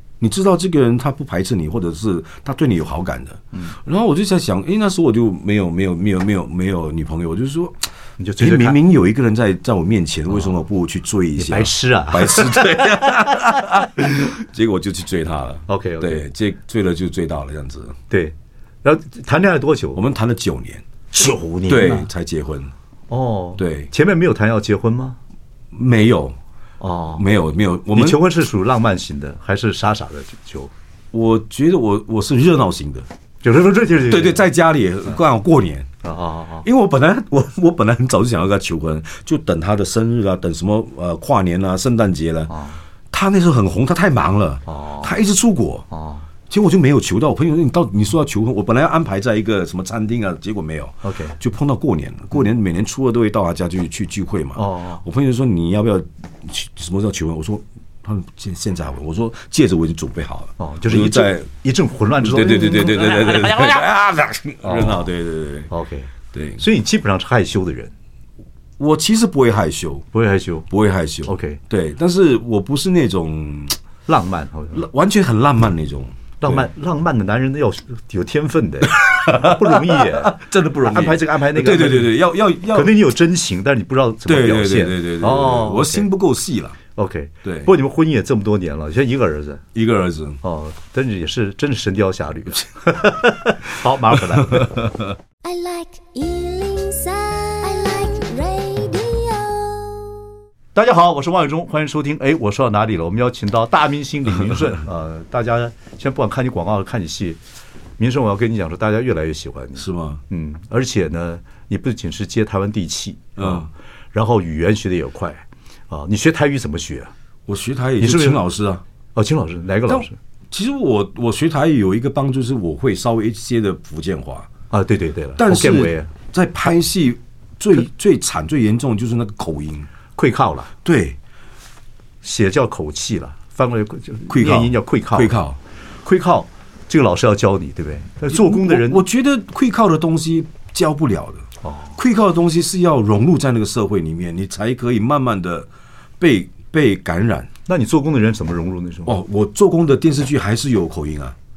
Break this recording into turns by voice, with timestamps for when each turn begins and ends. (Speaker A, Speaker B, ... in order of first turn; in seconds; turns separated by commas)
Speaker A: 0.2-7.8, Speaker B: 8.2-8.8, Speaker A: 8.4-18.0, Speaker B: 11.4-13.7, Speaker B: 15.7-16.2, Speaker B: 18.1-20.0, Speaker A: 19.9-22.7, Speaker B: 21.3-22.1, Speaker B: 23.1-25.2, Speaker A: 23.6-23.9, Speaker A: 25.7-26.4, Speaker B: 26.8-27.2, Speaker A: 27.1-28.2, Speaker B: 27.9-30.7, Speaker A: 31.1-33.1, Speaker B: 33.4-34.5, Speaker A: 34.1-35.9, Speaker B: 36.0-36.6, Speaker A: 36.6-42.5, Speaker B: 42.5-42.8, Speaker A: 43.1-45.9, Speaker B: 44.7-45.1, Speaker B: 45.9-46.2, Speaker A: 46.5-61.5, Speaker B: 51.0-51.4, Speaker B: 54.5-55.0, Speaker B: 60.6-63.3, Speaker A: 62.2-65.7, Speaker B: 64.6-65.1, Speaker B: 65.7-67.9, Speaker A: 66.3-66.6, Speaker A: 68.8-70.1, Speaker B: 70.1-70.7, Speaker A: 70.7-73.8, Speaker B: 71.2-71.6, Speaker B: 74.1-74.8, Speaker A: 74.7-76.7, Speaker B: 76.4-82.2, Speaker A: 78.9-82.9, Speaker B: 82.7-86.1, Speaker A: 84.2-86.8, Speaker B: 87.0-89.6, Speaker A: 87.4-87.7, Speaker A: 89.7-90.4, Speaker B: 90.4-94.8, Speaker A: 94.5-95.0, Speaker C: 95.4-100.2, Speaker B: 100.7-107.4, Speaker B: 108.0-117.1, Speaker A: 109.8-110.2, Speaker A: 113.4-113.7, Speaker A: 117.5-118.8, Speaker B: 118.0-118.4, Speaker B: 119.1-120.2, Speaker A: 119.9-124.5, Speaker B: 124.7-126.1, Speaker A: 125.4-129.9, Speaker B: 130.2-130.7, Speaker A: 130.8-131.2, Speaker B: 132.2-135.3, Speaker A: 134.3-135.6, Speaker B: 136.0-139.0, Speaker A: 138.3-145.7, Speaker B: 141.6-141.9, Speaker A: 146.2-147.5, Speaker B: 147.7-149.1, Speaker A: 149.1-151.3